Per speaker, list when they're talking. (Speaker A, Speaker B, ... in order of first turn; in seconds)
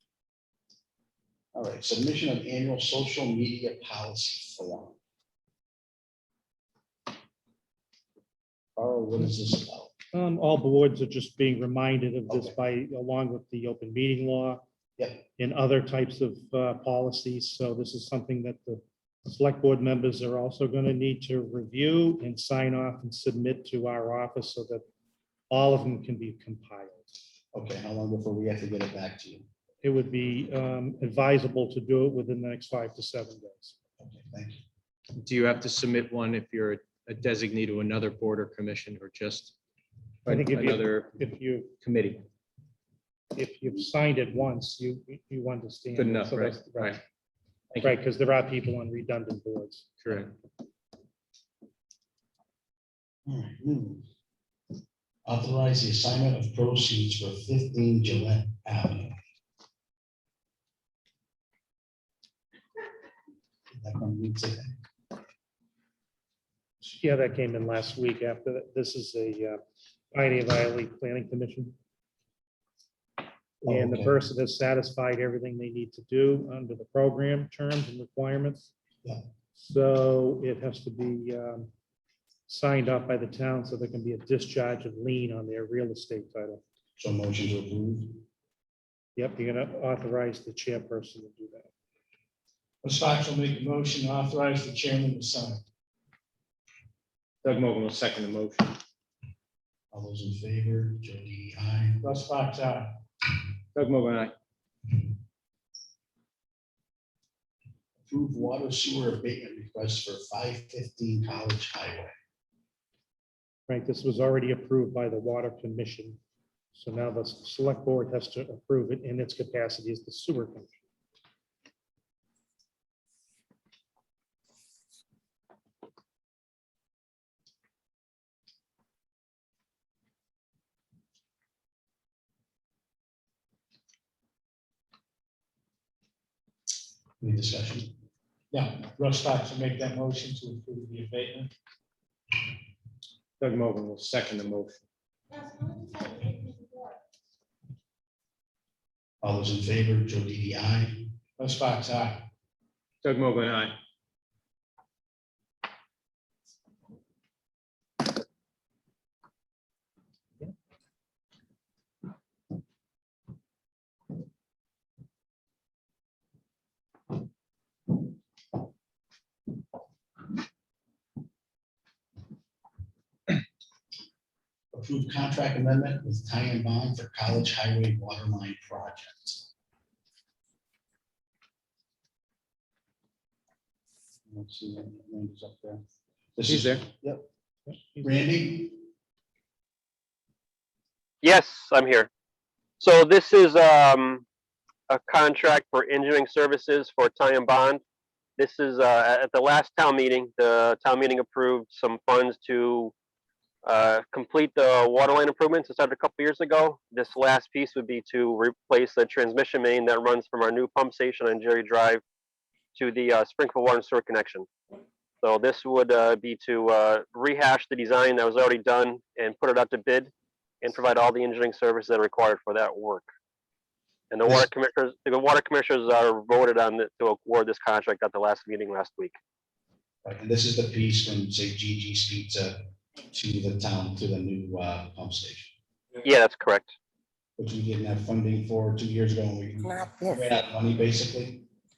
Speaker A: 1.5-5.0, 8.8-9.9, 12.3-12.6, 15.0-15.2, 27.5-29.5, 34.0-34.6, 53.3-54.0, 55.2-59.1, 63.8-64.7, 73.6-74.2, 87.0-88.2, 99.9-102.1, 108.0-112.1, 137.2-137.9, 149.2-151.1, 174.7-179.5, 184.3-185.8, 186.4-187.2, 188.0-188.8, 230.0-235.5, 237.4-241.4
Speaker B: 10.1-14.6, 15.4-24.8, 25.5-27.0, 29.8-33.7, 40.3-41.8, 43.3-47.0, 47.8-50.3, 66.8-69.6, 70.1-71.7, 73.6-78.7, 79.5-81.7, 82.5-86.6, 89.2-91.7, 113.7-116.2, 116.7-120.8
Speaker C: 35.1-39.5, 40.2-41.2, 41.8-42.2, 46.0-47.0, 47.7-48.0, 50.0-50.3, 97.4-98.8, 103.7-104.3, 143.4-144.8, 153.0-153.8, 186.5-186.8
Speaker D: 92.8-95.6, 102.0-102.9, 138.5-141.5, 151.4-152.3
Speaker E: 191.2-192.1, 192.8-194.2, 194.9-197.8, 198.4-202.9, 203.6-212.0, 212.7-214.5, 215.2-220.1, 220.6-223.1, 224.1-229.2, 236.0-236.7